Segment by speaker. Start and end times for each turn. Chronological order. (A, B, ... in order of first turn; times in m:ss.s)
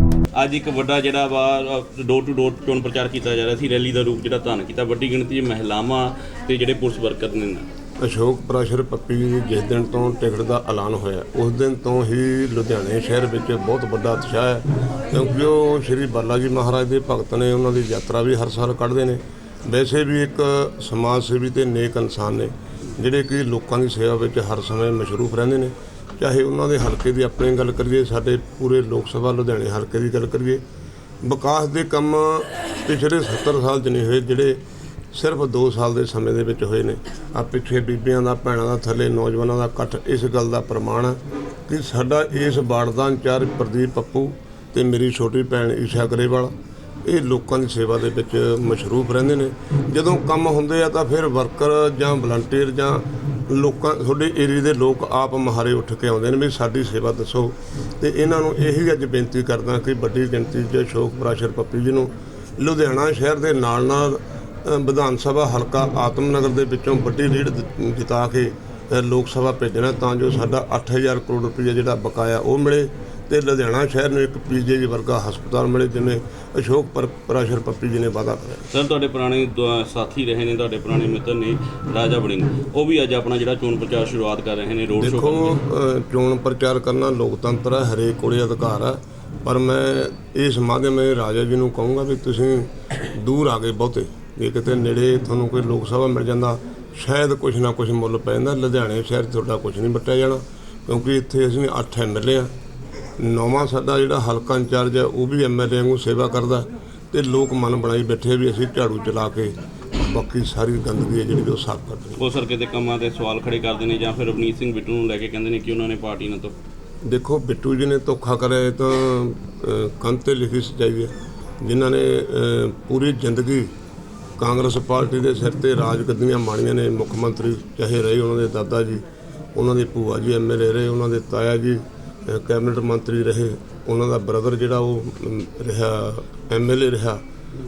0:00.4-0:07.6 A
0:08.0-0:30.6 B
0:31.2-0:34.6 B
0:35.1-0:46.5 B
0:47.0-1:18.7 B
1:18.7-1:25.6 A
1:25.0-1:42.5 B
1:43.2-1:52.2 B
1:52.2-1:56.5 A
1:57.0-2:03.7 B
2:04.4-2:09.0 B
2:09.5-2:17.2 B